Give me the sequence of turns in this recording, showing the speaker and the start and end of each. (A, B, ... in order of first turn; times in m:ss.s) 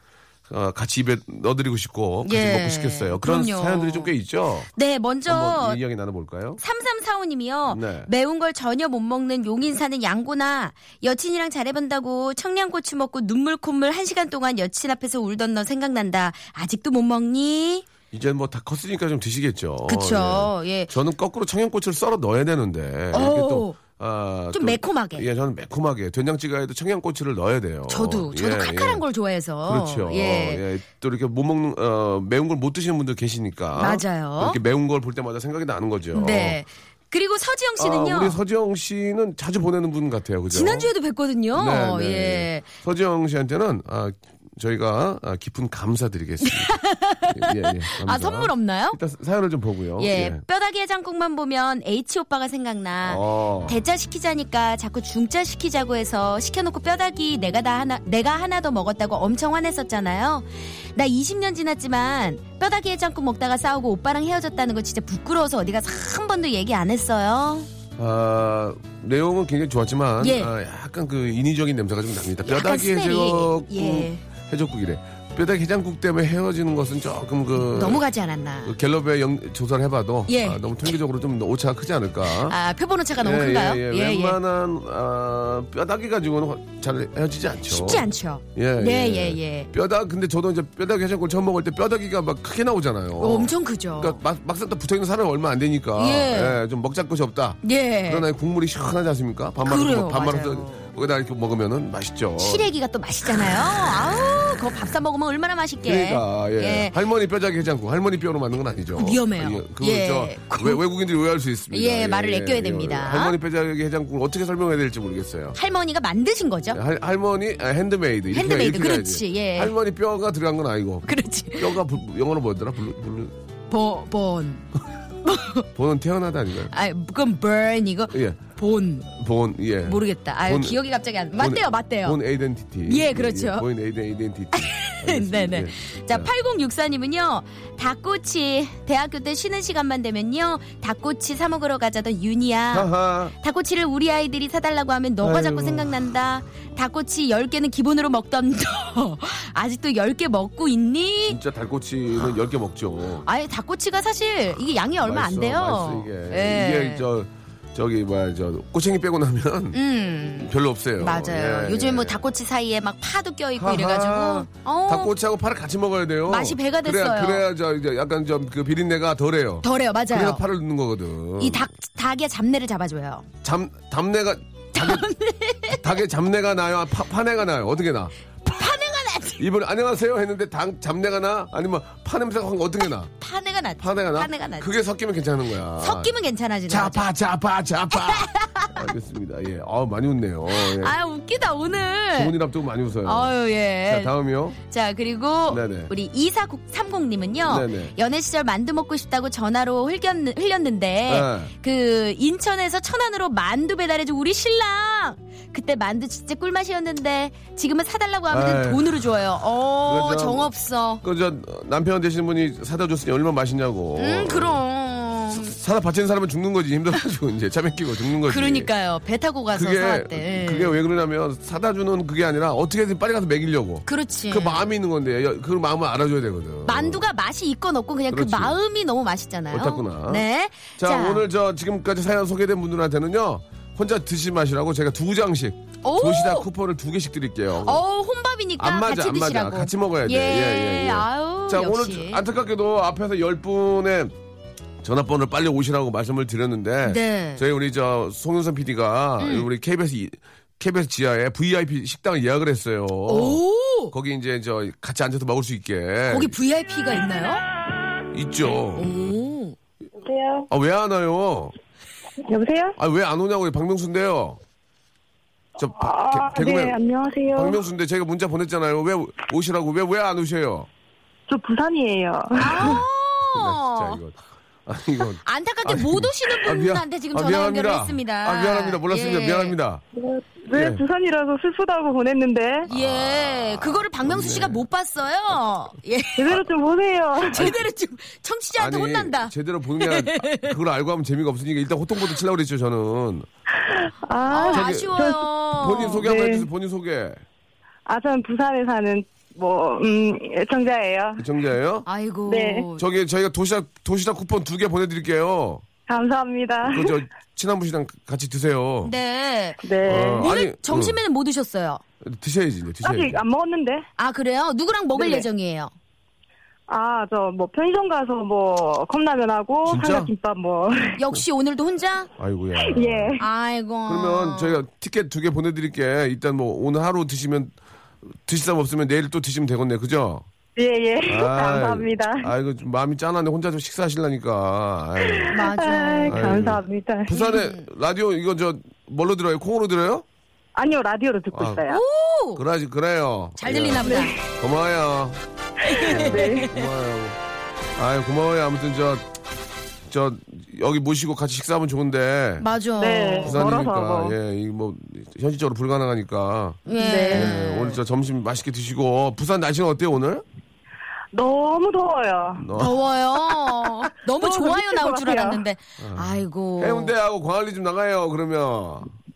0:00.5-0:04.7 A
0:02.2-0:04.1 B
0:04.8-0:05.8 B
0:05.3-0:06.6 A
0:06.6-0:17.9 B
0:07.7-0:08.1 A
0:18.1-0:29.0 A
0:19.9-0:20.9 B
0:23.1-0:23.8 B
0:24.5-0:25.2 B
0:27.9-0:30.6 B
0:29.7-0:36.6 A
0:33.8-0:34.6 B
0:36.1-0:38.4 B
0:37.8-0:40.9 A
0:40.5-0:42.7 B
0:41.5-0:50.4 A
0:46.4-0:49.0 B
0:50.0-1:07.7 B
0:53.0-0:53.8 A
1:08.0-1:18.0 A
1:10.2-1:10.5 B
1:12.5-1:14.2 B
1:17.6-1:18.8 B
1:18.6-1:22.6 A
1:20.3-1:20.7 B
1:22.4-1:24.4 B
1:23.2-1:42.7 A
1:27.7-1:29.7 B
1:33.2-1:34.2 B
1:36.0-1:36.6 B
1:37.6-1:38.3 B
1:39.6-1:40.8 B
1:42.4-1:46.9 B
1:45.8-1:55.6 A
1:49.0-1:50.8 B
1:51.7-1:53.4 B
1:55.6-1:56.8 B
1:56.7-2:03.4 A
1:58.3-1:59.7 B
2:01.0-2:01.8 B
2:03.7-2:04.7 B
2:05.2-2:05.7 B
2:05.8-2:06.7 A
2:06.7-2:09.1 B
2:08.1-2:08.4 A
2:09.1-2:10.8 A
2:09.9-2:12.2 B
2:11.4-2:16.3 A
2:12.9-2:13.7 B
2:14.6-2:31.4 B
2:22.7-2:23.4 A
2:25.2-2:26.0 A
2:31.3-2:33.2 A
2:33.2-2:37.0 B
2:35.0-2:39.8 A
2:39.7-2:45.1 B
2:40.4-2:42.2 A
2:43.6-2:51.7 A
2:46.3-2:47.4 B
2:49.6-2:50.4 B
2:51.4-2:53.3 B
2:53.4-2:55.1 A
2:54.7-2:55.8 B
2:55.7-2:58.1 A
2:58.4-2:59.4 B
2:59.4-3:03.1 A
3:03.2-3:04.7 B
3:03.8-3:06.1 A
3:05.8-3:07.1 B
3:06.7-3:11.0 A
3:07.9-3:08.9 B
3:10.5-3:12.3 B
3:12.1-3:13.3 A
3:13.0-3:31.0 B
3:13.9-3:14.6 A
3:15.5-3:15.9 A
3:17.5-3:18.0 A
3:21.1-3:21.5 A
3:28.3-3:29.0 A
3:29.8-3:34.6 A
3:34.0-3:35.6 B
3:35.3-3:38.7 A
3:38.3-3:40.8 B
3:39.5-3:47.0 A
3:43.9-3:44.6 B
3:46.6-3:51.3 B
3:48.1-3:48.6 A
3:49.5-3:57.8 A
3:55.8-3:56.5 B
3:57.6-4:02.2 B
3:58.6-4:04.2 A
4:04.8-4:16.4 A
4:06.9-4:07.4 B
4:09.2-4:09.5 B
4:13.1-4:13.9 B
4:16.1-4:17.4 B
4:18.1-4:18.9 A
4:18.8-4:19.6 B
4:20.0-4:20.5 C
4:20.5-4:21.5 A
4:22.3-4:22.8 C
4:22.8-4:24.4 A
4:25.6-4:26.8 A
4:25.8-4:27.6 C
4:27.3-4:30.7 A
4:31.3-4:32.7 C
4:32.4-4:34.0 B
4:32.4-4:39.8 A
4:35.2-4:39.6 B
4:40.0-4:42.7 C
4:40.5-4:40.8 A
4:42.7-4:44.6 A
4:42.7-4:46.4 B
4:46.2-4:47.6 C
4:47.2-4:50.6 B
4:47.3-4:47.6 A
4:48.6-4:53.3 A
4:53.7-4:56.5 C
4:54.3-4:56.0 B
4:54.5-4:55.0 A
4:55.6-4:57.2 A
4:57.9-5:01.2 C
5:01.2-5:01.9 A
5:01.9-5:02.8 B
5:02.3-5:02.6 C
5:02.8-5:05.6 A
5:05.9-5:07.0 C
5:06.6-5:09.0 A
5:08.8-5:11.8 B
5:09.6-5:10.2 C
5:09.8-5:11.0 A
5:12.0-5:13.2 A
5:12.8-5:13.8 C
5:14.0-5:15.7 B
5:15.0-5:15.3 C
5:16.7-5:21.0 C
5:19.6-5:20.1 A
5:21.0-5:22.1 B
5:22.2-5:23.2 A
5:22.6-5:23.2 C
5:23.2-5:24.6 B
5:23.9-5:27.6 A
5:28.3-5:30.3 A
5:30.6-5:32.3 C
5:31.0-5:35.4 A
5:35.1-5:37.1 C
5:35.3-5:36.3 B
5:36.1-5:40.0 A
5:37.1-5:37.7 B
5:40.6-5:41.8 C
5:41.3-5:41.6 A
5:41.7-5:42.4 B
5:42.4-5:45.2 A
5:43.4-5:44.2 B
5:43.8-5:44.2 C
5:45.7-5:46.6 B
5:45.7-5:46.5 C
5:45.7-5:47.2 A
5:47.8-5:49.1 A
5:49.9-5:52.5 A
5:52.4-5:53.4 B
5:52.8-5:54.2 C
5:53.2-6:00.2 A
5:56.7-5:57.8 B
5:56.8-5:57.3 C
6:01.1-6:02.4 C
6:02.4-6:02.8 A
6:02.6-6:06.9 B
6:04.2-6:05.4 C
6:05.8-6:08.9 A